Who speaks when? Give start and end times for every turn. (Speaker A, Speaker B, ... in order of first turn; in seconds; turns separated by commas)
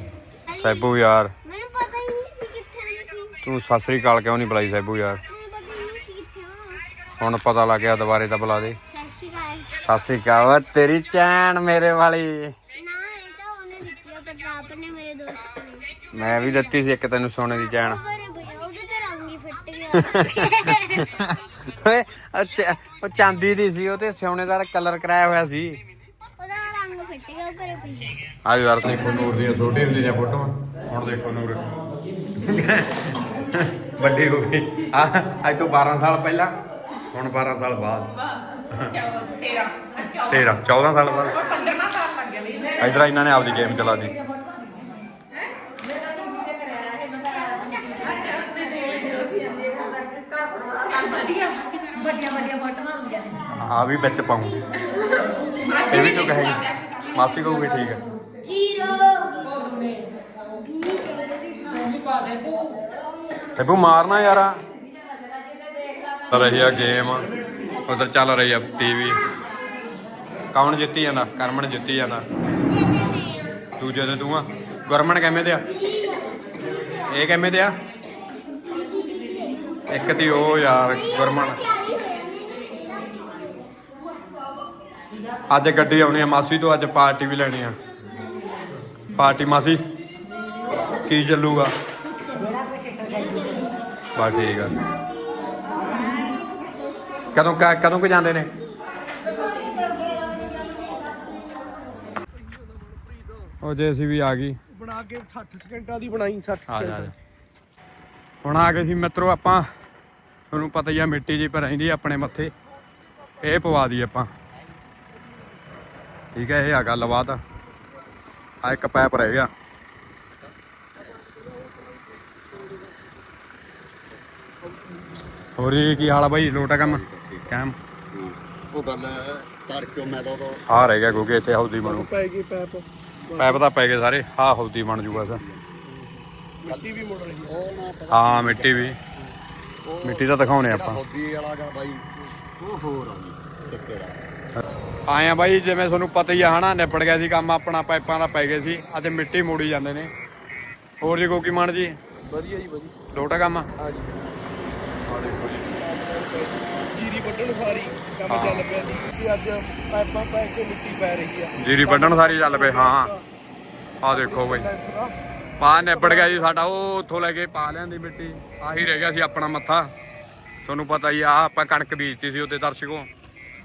Speaker A: 0.5-0.9, Speaker B: 0.5-1.3, Speaker A: 1.4-3.4, Speaker B: 3.4-5.2, Speaker A: 5.3-6.9, Speaker B: 7.2-8.8, Speaker A: 8.9-9.7, Speaker B: 9.8-12.6, Speaker A: 12.7-16.7, Speaker B: 16.1-18.0, Speaker A: 17.7-21.0, Speaker B: 19.9-25.8, Speaker A: 26.4-28.3, Speaker B: 28.4-31.7, Speaker B: 32.4-36.5, Speaker B: 37.1-38.1, Speaker C: 39.0-40.1, Speaker B: 40.3-41.4, Speaker C: 41.5-42.8, Speaker B: 42.8-44.1, Speaker C: 46.3-52.5, Speaker B: 53.5-54.7, Speaker C: 55.7-56.7, Speaker B: 55.9-58.0, Speaker A: 58.5-59.2, Speaker A: 60.7-61.9, Speaker B: 63.6-64.6, Speaker B: 66.3-67.3, Speaker B: 67.9-69.2, Speaker B: 70.5-72.3, Speaker A: 72.5-73.6, Speaker B: 73.8-75.7, Speaker A: 75.8-76.2, Speaker B: 77.1-77.8, Speaker A: 78.7-79.7, Speaker B: 79.9-81.6, Speaker A: 81.0-83.6, Speaker B: 85.5-87.8, Speaker B: 89.2-89.8, Speaker B: 91.0-91.7, Speaker A: 93.1-93.6, Speaker B: 94.2-94.8, Speaker B: 97.3-98.5, Speaker B: 103.6-104.6, Speaker D: 104.7-107.1, Speaker B: 106.7-107.1, Speaker B: 108.4-109.7, Speaker B: 110.5-112.5, Speaker B: 113.4-114.3, Speaker B: 116.4-117.4, Speaker B: 118.6-119.5, Speaker B: 125.6-127.8, Speaker E: 128.3-130.6, Speaker B: 130.7-132.1, Speaker D: 131.8-133.6, Speaker B: 133.3-135.4, Speaker D: 136.6-137.7, Speaker B: 138.1-139.0, Speaker B: 140.0-141.0, Speaker E: 140.8-142.0, Speaker E: 142.6-144.0, Speaker B: 145.1-150.1, Speaker B: 151.0-152.0, Speaker D: 152.2-153.0, Speaker B: 153.1-153.7, Speaker D: 153.8-154.2, Speaker B: 155.1-155.7, Speaker D: 155.7-163.2, Speaker B: 158.3-158.7, Speaker B: 161.6-163.1, Speaker B: 164.0-164.7, Speaker D: 164.0-165.2, Speaker B: 165.6-169.9, Speaker D: 165.9-166.5, Speaker B: 170.7-173.1